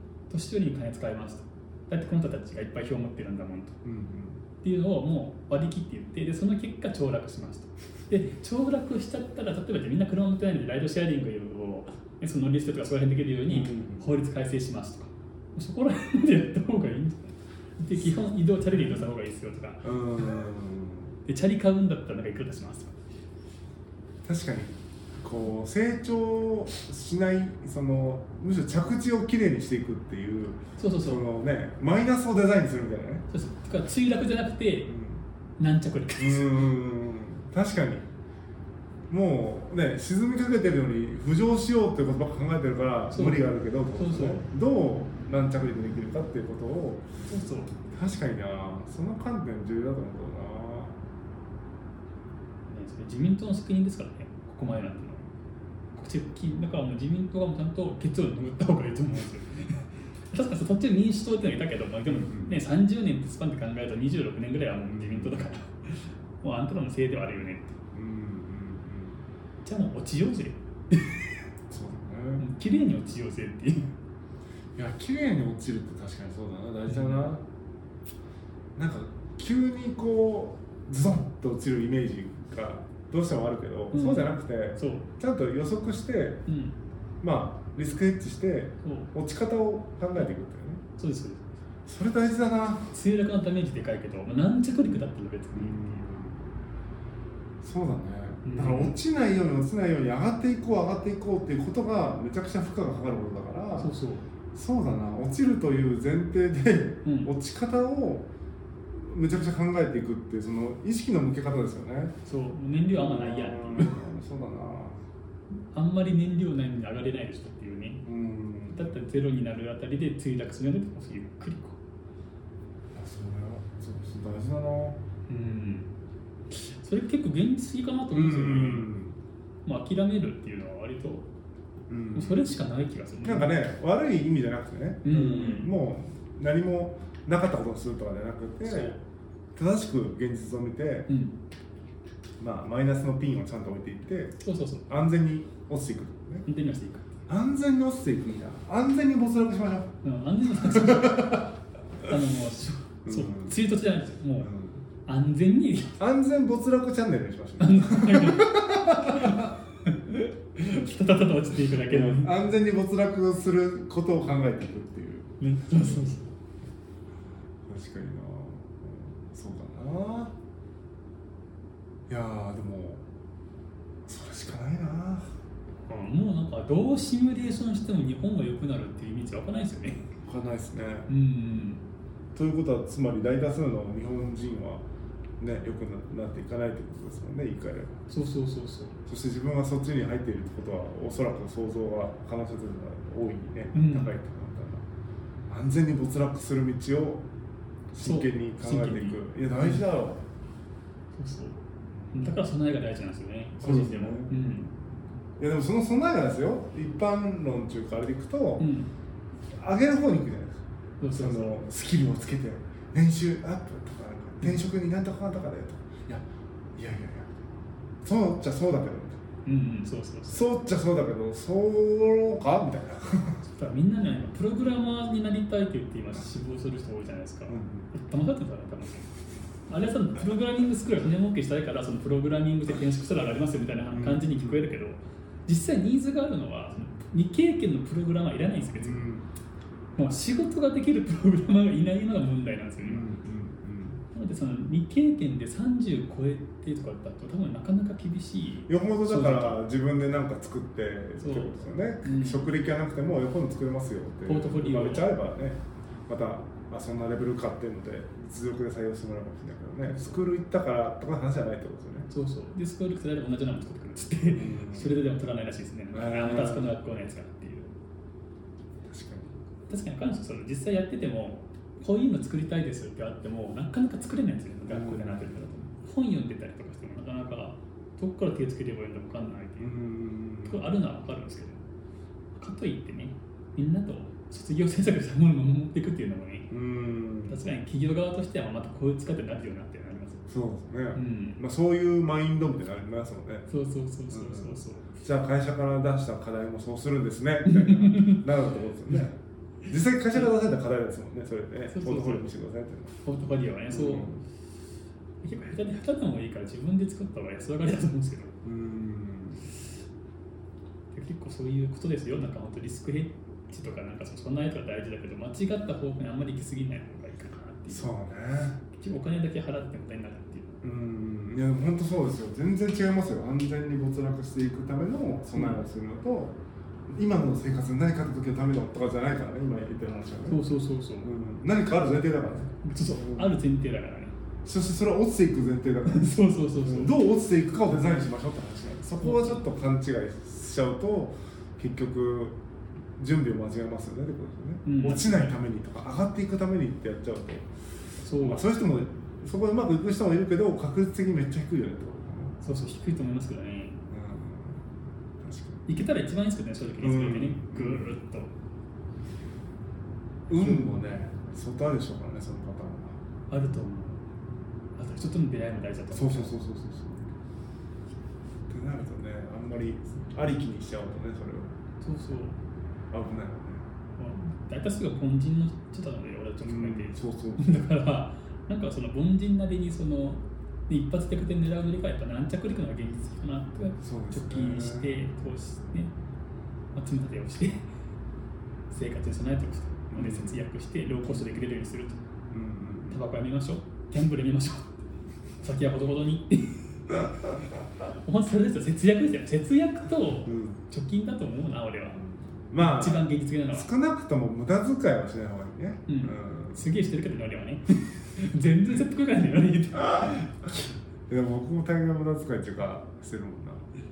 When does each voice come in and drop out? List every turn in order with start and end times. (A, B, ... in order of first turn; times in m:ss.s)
0:00.3-0:03.8 A
0:03.8-0:04.4 B
0:04.6-0:20.4 A
0:13.5-0:14.1 B
0:18.0-0:18.2 B
0:19.8-0:21.1 B
0:21.2-0:22.9 A
0:24.2-0:33.2 B
0:30.8-0:31.2 A
0:33.3-0:34.9 A
0:34.9-0:35.2 B
0:35.6-0:36.7 A
0:36.2-0:38.1 B
0:39.1-0:47.1 B
0:43.1-0:44.4 A
0:47.3-0:47.7 A
0:47.9-0:51.0 B
0:52.7-0:55.2 A
0:55.9-1:07.8 A
1:02.1-1:02.6 B
1:04.9-1:05.5 B
1:07.9-1:09.2 B
1:09.6-1:11.4 A
1:11.7-1:12.4 B
1:12.4-1:13.9 A
1:14.7-1:17.4 B
1:16.9-1:17.3 A
1:18.8-1:26.4 B
1:23.9-1:25.1 A
1:26.5-1:26.8 A
1:27.2-1:30.8 B
1:28.8-1:29.1 A
1:31.0-1:31.5 A
1:31.8-1:32.9 B
1:32.9-1:36.0 A
1:35.5-1:36.5 B
1:37.6-1:43.9 B
1:38.4-1:39.0 A
1:43.8-1:44.2 A
1:44.5-1:48.3 B
1:47.0-1:47.3 A
1:48.9-1:52.1 B
1:52.2-1:54.0 A
1:52.9-1:55.0 B
1:55.7-1:58.0 A
1:58.0-1:59.0 B
1:58.7-2:01.8 A
2:02.9-2:05.0 B
2:05.3-2:05.9 A
2:06.5-2:08.9 A
2:08.1-2:09.2 B
2:09.6-2:11.3 A
2:11.9-2:12.5 B
2:12.1-2:13.5 A
2:13.2-2:19.0 B
2:15.0-2:15.7 A
2:18.6-2:19.0 A
2:19.5-2:21.1 B
2:21.1-2:21.3 A
2:22.4-2:24.4 B
2:24.4-2:24.8 A
2:24.9-2:26.4 B
2:26.4-2:27.2 A
2:27.3-2:30.0 B
2:30.0-2:31.5 A
2:30.5-2:32.1 B
2:32.0-2:34.5 A
2:33.0-2:33.6 B
2:34.4-2:34.8 B
2:35.0-2:36.0 A
2:36.0-2:39.5 B
2:37.6-2:42.4 A
2:41.8-2:46.2 B
2:45.4-2:46.2 A
2:47.6-2:50.4 B
2:52.1-2:53.0 B
2:54.0-2:55.4 B
2:55.9-3:00.1 A
3:00.2-3:01.1 B
3:01.1-3:01.8 A
3:02.3-3:04.8 B
3:05.4-3:08.0 B
3:08.1-3:09.0 A
3:09.0-3:14.8 B
3:13.7-3:14.2 A
3:15.5-3:17.2 B
3:17.9-3:20.2 B
3:18.0-3:19.8 A
3:21.2-3:24.7 A
3:22.0-3:22.4 B
3:23.6-3:24.4 B
3:25.4-3:28.7 B
3:28.6-3:28.9 A
3:29.5-3:30.6 B
3:31.0-3:31.6 A
3:31.1-3:37.3 B
3:38.0-3:39.2 B
3:39.4-3:40.4 A
3:40.3-3:43.4 B
3:43.4-3:49.1 A
3:47.5-3:47.9 B
3:49.7-3:59.0 A
3:53.9-3:54.7 B
3:58.7-3:59.3 B
4:00.0-4:03.1 A
4:02.8-4:04.0 B
4:04.1-4:09.6 A
4:08.7-4:22.1 B
4:11.2-4:12.5 A
4:14.2-4:15.1 A
4:19.9-4:20.2 A
4:22.1-4:27.7 A
4:24.3-4:25.0 B
4:25.9-4:26.7 B
4:28.8-4:29.4 B
4:29.7-4:39.8 A
4:34.7-4:35.5 B
4:39.6-4:40.7 B
4:40.4-4:41.6 A
4:42.3-4:46.5 A
4:46.5-4:47.4 B
4:47.3-4:50.3 A
4:50.3-4:53.5 B
4:50.9-4:51.4 A
4:53.5-4:55.0 A
4:54.1-5:02.9 B
4:57.4-4:58.3 A
5:01.7-5:02.2 A
5:03.0-5:04.1 A
5:03.7-5:04.2 B
5:05.2-5:08.4 A
5:08.4-5:09.4 B
5:10.9-5:17.9 A
5:17.7-5:18.6 B
5:18.7-5:20.6 A
5:20.6-5:30.4 B
5:30.3-5:31.1 A
5:31.0-5:33.4 B
5:32.6-5:34.1 A
5:34.4-5:36.1 B
5:35.8-5:37.0 A
5:36.6-5:42.4 B
5:39.0-5:39.4 A
5:43.0-5:47.5 B
5:44.6-5:45.4 A
5:48.0-5:48.5 A
5:48.1-5:52.4 B
5:52.4-5:53.8 A
5:53.9-5:55.6 B
5:55.6-5:58.3 A
5:56.8-5:57.9 B
6:00.3-6:03.0 B
6:00.4-6:00.8 A
6:03.3-6:04.0 A
6:04.8-6:06.4 A
6:05.9-6:07.1 B
6:08.5-6:11.5 B
6:11.8-6:12.4 A
6:12.9-6:13.7 B
6:14.0-6:25.9 A
6:16.4-6:17.5 B
6:23.8-6:25.0 B
6:26.7-6:27.6 A
6:28.7-6:32.0 A
6:29.9-6:30.4 B
6:32.3-6:33.0 B
6:32.9-6:34.9 A
6:35.4-6:37.1 A
6:37.8-6:42.0 A
6:40.2-6:40.6 B
6:42.5-6:46.6 B
6:42.6-6:43.7 A
6:45.9-6:50.7 A
6:51.1-6:53.7 B